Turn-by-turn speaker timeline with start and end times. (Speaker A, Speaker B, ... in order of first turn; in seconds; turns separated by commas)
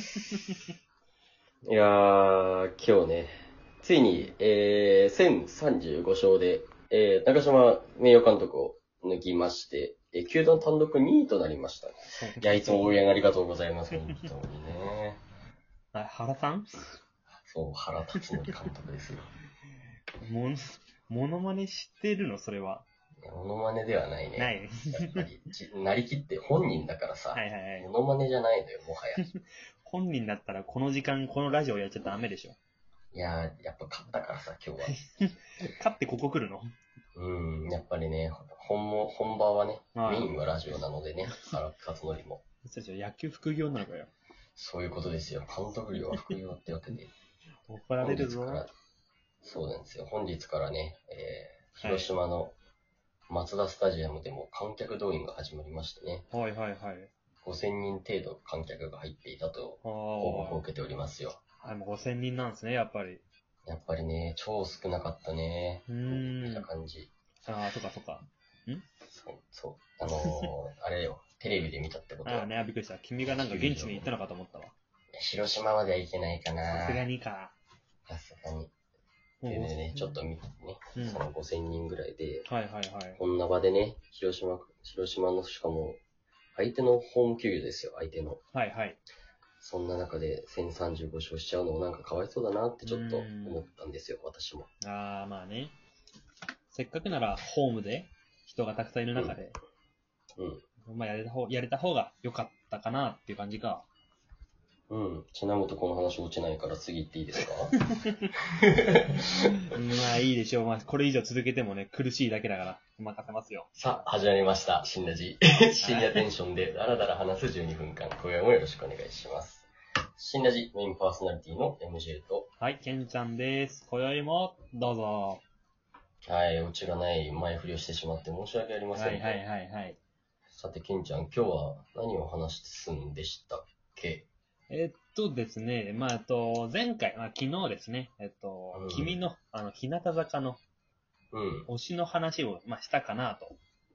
Speaker A: 1.7-15.2, Speaker B: 12.2-12.9, Speaker B: 15.9-16.9, Speaker A: 17.4-19.3, Speaker B: 20.2-22.9, Speaker A: 23.2-29.2, Speaker B: 24.4-25.2, Speaker B: 27.3-27.9, Speaker B: 29.2-32.6, Speaker A: 33.1-34.9, Speaker B: 34.8-36.7, Speaker A: 37.2-42.4, Speaker B: 40.0-40.3, Speaker B: 42.6-44.1, Speaker A: 44.6-47.1, Speaker B: 47.7-48.6, Speaker A: 48.0-48.7, Speaker A: 49.4-52.6, Speaker B: 51.8-52.1, Speaker A: 53.3-56.3, Speaker B: 56.3-57.1, Speaker A: 57.4-61.4, Speaker B: 59.8-60.6, Speaker B: 61.6-63.2, Speaker A: 63.7-67.1, Speaker B: 65.9-66.7, Speaker B: 67.5-68.9, Speaker A: 69.1-72.5, Speaker B: 70.2-70.5, Speaker B: 72.2-74.7, Speaker A: 73.2-74.1, Speaker A: 75.1-77.0, Speaker B: 76.7-77.5, Speaker A: 78.1-78.7, Speaker B: 79.4-80.2, Speaker A: 79.5-82.5, Speaker B: 81.0-81.2, Speaker B: 82.5-83.2, Speaker A: 83.2-86.0, Speaker A: 86.6-88.4, Speaker B: 88.5-89.0, Speaker A: 89.6-94.7, Speaker B: 92.8-93.7, Speaker B: 94.8-95.8, Speaker B: 96.7-99.6, Speaker A: 100.4-100.6, Speaker B: 100.8-103.9, Speaker A: 104.9-107.8, Speaker B: 107.9-108.2, Speaker A: 108.6-109.3, Speaker B: 109.7-113.7, Speaker A: 113.8-122.5, Speaker B: 115.8-116.2, Speaker B: 122.6-125.4, Speaker A: 126.2-129.4, Speaker B: 128.9-130.0, Speaker A: 130.5-134.3, Speaker B: 134.7-140.6, Speaker A: 138.7-139.2, Speaker A: 141.3-141.7, Speaker B: 141.7-143.6